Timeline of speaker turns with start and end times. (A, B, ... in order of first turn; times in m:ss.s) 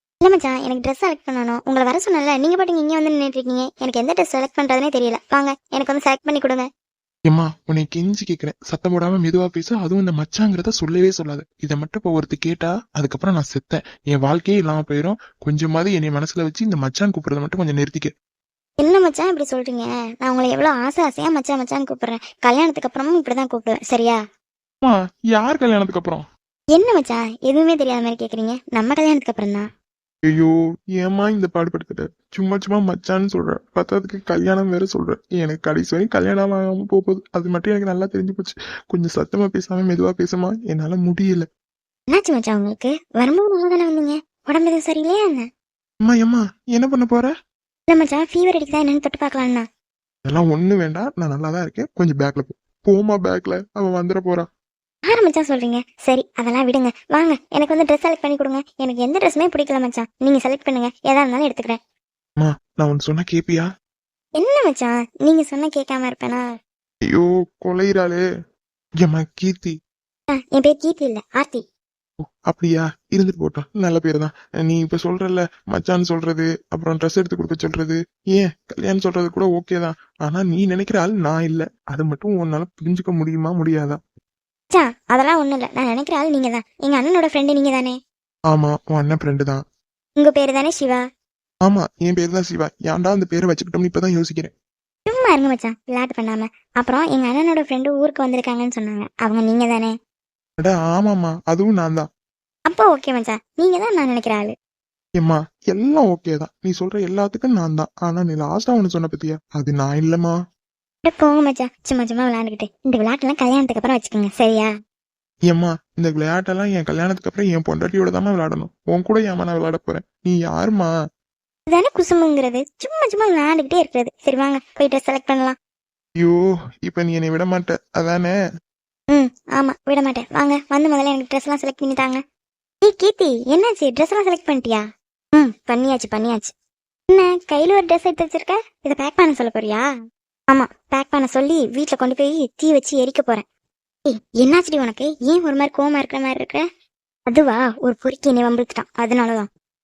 0:00.2-0:06.7 A
0:07.3-0:18.1 B
0:18.8-0:24.2 A
0:24.8-0:26.2 B
0:26.7-0:29.7 A
0:30.3-0:41.5 B
0:42.1-0:45.5 A
0:46.0-0:47.3 B
0:47.9-0:49.6 A
0:50.3-0:54.5 B
0:55.1-1:01.8 A
1:02.4-1:03.7 B
1:04.4-1:06.4 A
1:07.1-1:08.2 B
1:09.0-1:09.8 B
1:10.4-1:11.6 A
1:12.5-1:24.0 B
1:24.7-1:28.0 A
1:28.5-1:29.6 B
1:30.2-1:31.0 A
1:31.6-1:34.5 B
1:35.1-1:39.9 A
1:40.6-1:42.1 B
1:42.7-1:44.5 A
1:45.2-1:50.4 B
1:51.0-1:54.7 A
1:55.5-2:00.9 B
2:01.7-2:05.6 A
2:06.2-2:08.3 B
2:09.1-2:12.2 A
2:12.8-2:16.5 A
2:17.1-2:19.8 A
2:20.5-2:23.4 A
2:24.1-2:26.6 A
2:27.3-2:29.5 A